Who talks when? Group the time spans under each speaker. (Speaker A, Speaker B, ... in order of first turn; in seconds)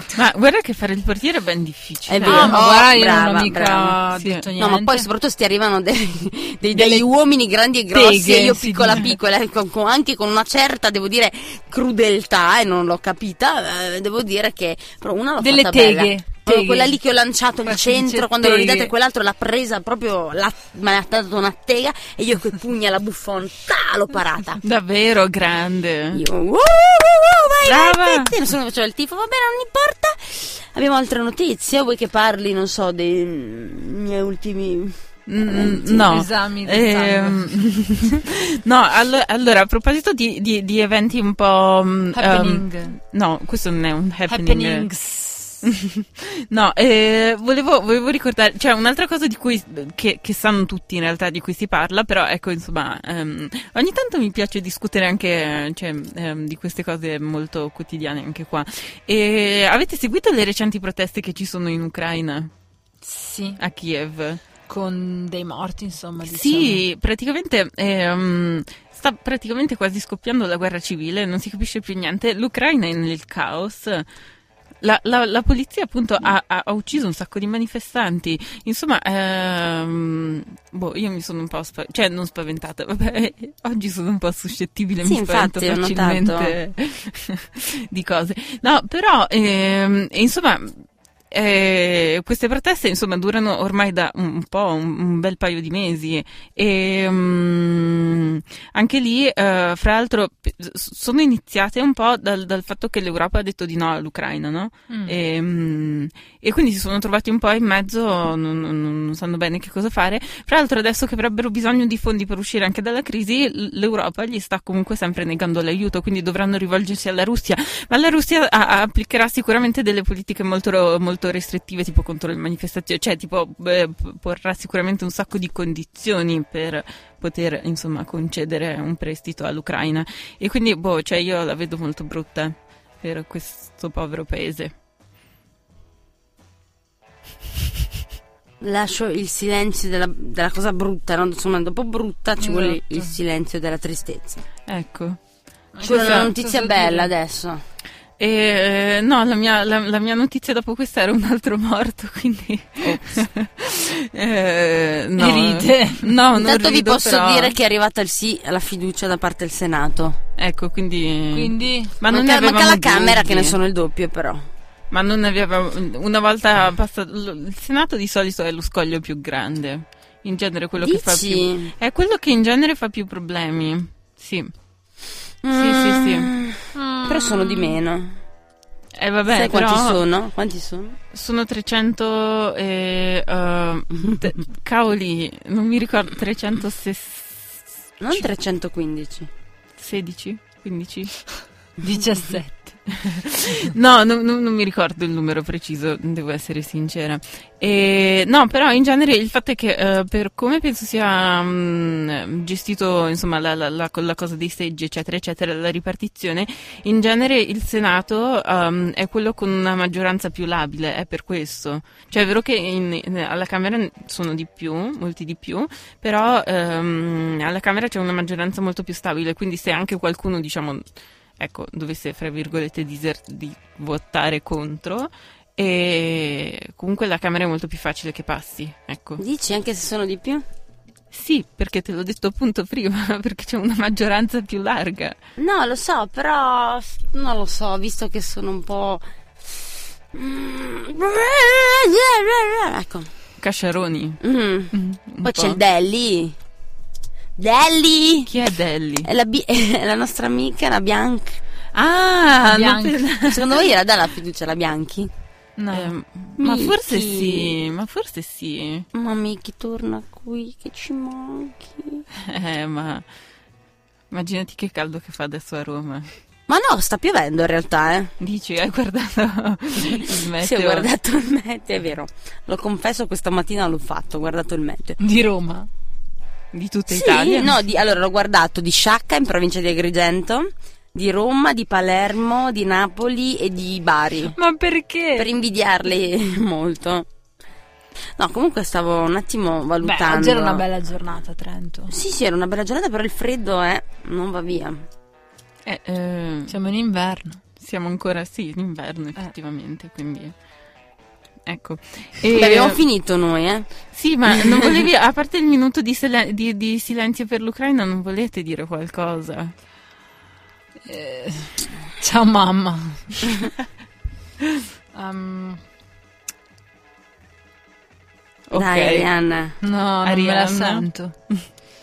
Speaker A: 0.1-2.6, 4.2-4.4, 24.6-26.2, 27.6-28.4, 35.3-44.9, 45.6-62.5, 63.6-64.4, 66.2-74.1, 74.8-134.7, 144.7-145.2, 145.8-146.3, 148.2-157.5, 160.4-163.6, 164.9-174.5, 175.5-176.3, 179.0-180.0, 181.1-188.2, 189.8-191.2, 192.9-220.8, 221.4-229.2, 231.1-235.2, 243.4-244.2, 244.7-245.6, 248.3-249.1, 251.7-253.5, 255.7-258.9, 262.2-263.0, 264.1-266.1, 268.2-270.9, 276.5-277.5, 295.6-296.5, 297.6-300.3, 301.4-302.8, 303.9-309.5, 318.5-319.1, 320.0-321.4
Speaker B: 2.1-4.0, 4.6-24.6, 26.1-36.1, 85.0-86.5, 138.6-144.4, 145.8-147.6, 156.3-160.2, 162.1-164.4, 170.8-171.7, 175.4-178.2, 179.3-181.0, 188.0-189.3, 229.2-230.4, 235.4-239.0, 240.1-243.1, 244.2-246.3, 247.4-248.3, 249.0-251.4, 253.2-255.1, 256.4-257.6, 258.9-262.0, 266.5-268.1, 269.9-275.0, 276.9-284.3, 285.2-287.1, 288.2-290.6, 291.9-294.8, 302.3-303.7, 304.3-304.8, 318.5-319.6
Speaker C: 2.2-5.0, 6.7-7.0, 7.9-9.1, 15.4-16.9, 17.6-18.9, 35.9-37.6, 42.1-43.0, 44.3-45.6, 63.0-63.6, 64.7-66.8, 104.9-105.1, 142.4-143.1, 145.7-147.1, 155.2-156.1, 161.3-161.9, 176.8-177.7, 191.8-192.8, 252.4-253.0, 255.6-255.9, 275.0-275.7, 284.3-285.3, 289.8-291.9, 296.5-297.4, 310.9-313.3, 314.9-315.6, 319.6-321.1